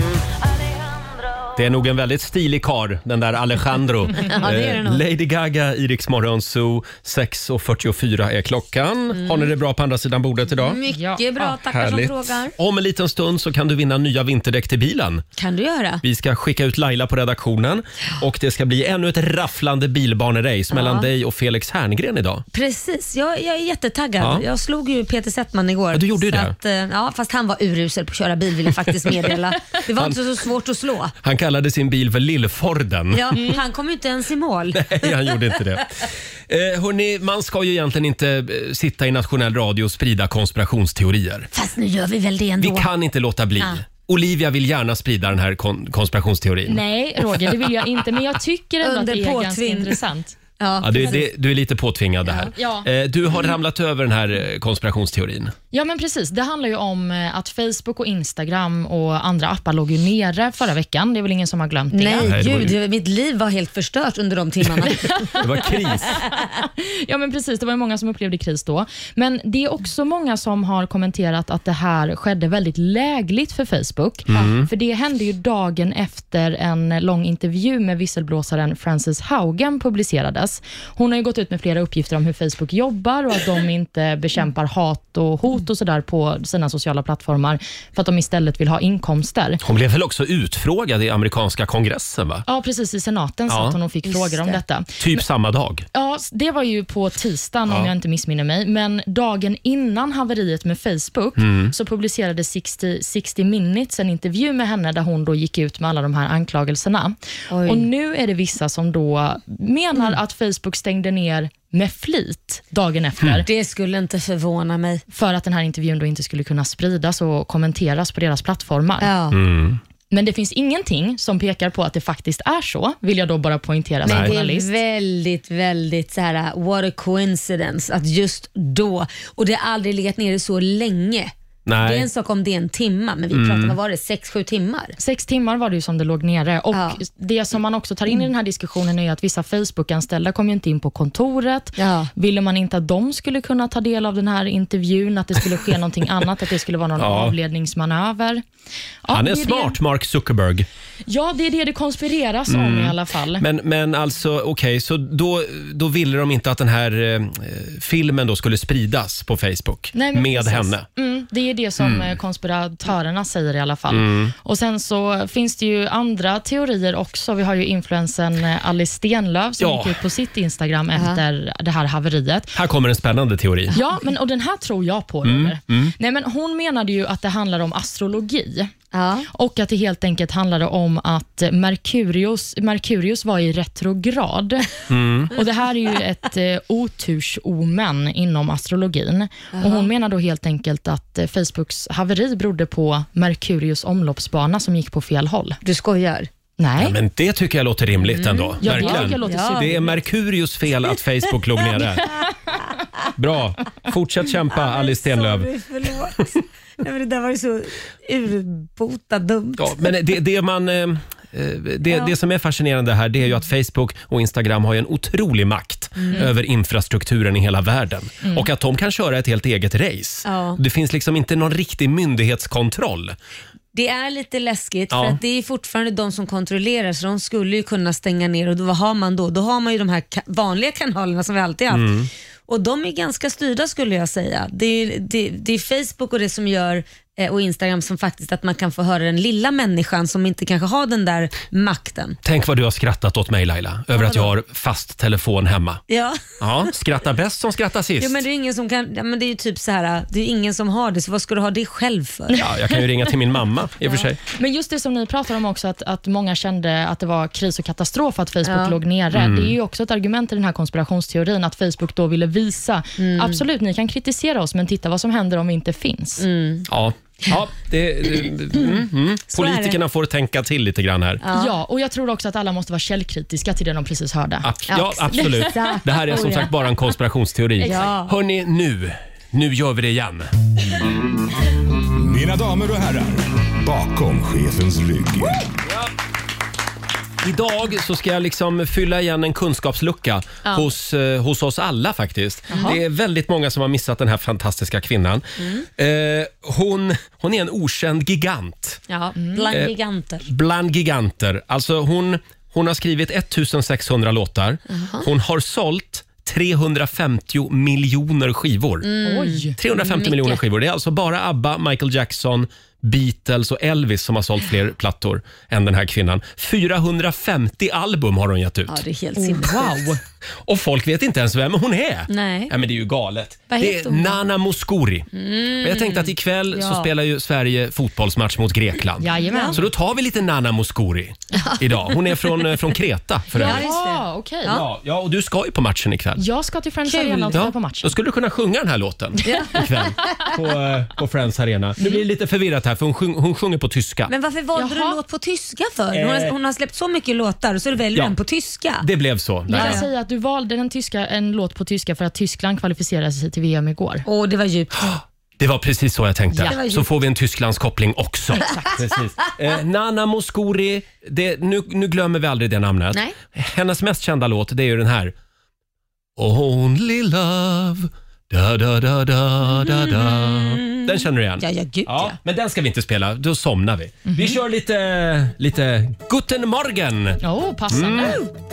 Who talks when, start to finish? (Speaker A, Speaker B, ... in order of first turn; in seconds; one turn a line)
Speaker A: 1.5-10.8
Speaker B: 4.2-5.0
Speaker B: 9.1-9.5
Speaker B: 10.6-12.5
Speaker C: 10.9-11.6
Speaker A: 11.7-15.2
Speaker B: 15.4-16.0
Speaker A: 16.0-22.4
Speaker B: 20.7-21.1
Speaker B: 22.5-31.1
Speaker A: 24.2-24.4
Speaker A: 25.9-26.6
Speaker A: 31.2-33.5
Speaker B: 33.1-35.6
Speaker A: 34.7-41.5
Speaker B: 41.5-42.9
Speaker A: 42.6-46.8
Speaker C: 46.7-50.4
Speaker B: 48.8-50.0
Speaker B: 50.6-51.2
Speaker A: 50.8-55.5
Speaker C: 52.5-52.9
Speaker C: 55.7-62.3
Speaker B: 61.9-65.1
Speaker A: 62.2-62.8
Speaker A: 64.6-66.2
Speaker C: 66.2-89.6
Speaker A: 74.3-74.7
Speaker A: 89.6-92.4
Speaker C: 92.5-95.2
Speaker A: 93.5-93.8
Speaker B: 94.1-94.6
Speaker A: 95.0-95.8
Speaker C: 95.9-113.5
Speaker A: 101.4-101.7
Speaker B: 107.5-107.9
Speaker B: 113.4-115.0
Speaker C: 115.1-119.1
Speaker B: 119.0-119.4
Speaker A: 119.3-119.8
Speaker C: 120.1-124.7
Speaker A: 124.0-124.3
Speaker B: 124.0-134.9
Speaker A: 131.7-132.1
Speaker A: 133.3-133.8
Speaker C: 135.0-148.4
Speaker B: 136.7-137.0
Speaker B: 141.8-142.1
Speaker A: 147.0-147.3
Speaker C: 149.0-149.8
Speaker A: 149.1-150.7
Speaker C: 151.1-153.4
Speaker A: 152.5-160.8
Speaker C: 159.9-172.6
Speaker A: 161.8-162.1
Speaker A: 163.9-164.3
Speaker A: 169.6-170.0
Speaker B: 170.9-171.2
Speaker A: 172.5-173.8
Speaker C: 173.7-178.7
Speaker A: 175.2-175.9
Speaker B: 178.9-179.3
Speaker C: 179.3-184.7
Speaker A: 184.9-185.3
Speaker C: 185.3-195.6
Speaker B: 189.6-189.9
Speaker B: 195.6-196.3
Speaker C: 196.6-197.0
Speaker A: 196.8-202.1
Speaker B: 198.1-199.8
Speaker C: 198.6-199.9
Speaker B: 201.7-202.6
Speaker A: 203.2-205.5
Speaker B: 204.5-209.8
Speaker A: 209.6-223.2
Speaker B: 216.0-216.3
Speaker B: 220.2-220.6
Speaker B: 223.7-231.9
Speaker A: 224.9-225.2
Speaker A: 231.7-232.1
Speaker B: 232.5-242.2
Speaker A: 242.2-245.8
Speaker B: 243.9-244.3
Speaker B: 245.9-246.7
Speaker A: 246.4-248.2
Speaker B: 248.0-252.4
Speaker C: 252.3-252.8
Speaker A: 252.3-254.2
Speaker C: 254.2-266.2
Speaker B: 258.4-258.8
Speaker A: 259.1-259.5
Speaker B: 263.0-263.4
Speaker B: 266.2-266.6
Speaker A: 266.7-271.2
Speaker B: 269.3-269.8
Speaker B: 271.2-271.5
Speaker C: 271.3-274.5
Speaker A: 274.4-280.3
Speaker B: 274.7-276.5
Speaker B: 277.6-278.1
Speaker D: 281.9-285.4
Speaker A: 287.2-295.2
Speaker B: 292.5-292.8
Speaker C: 292.5-292.8
Speaker B: 295.4-295.6
Speaker A: 295.8-298.8
Speaker B: 298.9-300.3
Speaker C: 299.1-299.5
Speaker A: 299.5-308.9
Speaker B: 304.7-305.1
Speaker B: 308.8-310.4
Speaker C: 309.0-309.6
Speaker A: 309.6-318.8
Speaker B: 318.7-319.8
Speaker C: 319.2-320.0
Speaker A: 320.4-325.1
Speaker B: 322.1-322.5
Speaker B: 323.5-324.2
Speaker B: 325.1-326.9
Speaker A: 325.6-333.6
Speaker C: 329.0-329.6
Speaker B: 329.3-329.6
Speaker B: 331.3-332.6
Speaker C: 333.3-334.6
Speaker B: 333.4-334.6
Speaker A: 334.5-336.2
Speaker C: 336.2-337.9
Speaker B: 336.9-337.4
Speaker A: 337.3-344.1
Speaker B: 339.2-340.3
Speaker B: 344.1-348.8
Speaker C: 344.6-345.0
Speaker A: 345.9-346.3
Speaker A: 348.8-349.8
Speaker C: 349.5-354.0
Speaker B: 349.5-349.9
Speaker B: 354.1-354.9
Speaker A: 354.8-365.1
Speaker B: 356.4-356.9
Speaker A: 366.2-378.2
Speaker B: 369.6-372.2
Speaker C: 374.0-374.4
Speaker C: 377.2-378.2
Speaker B: 378.0-378.3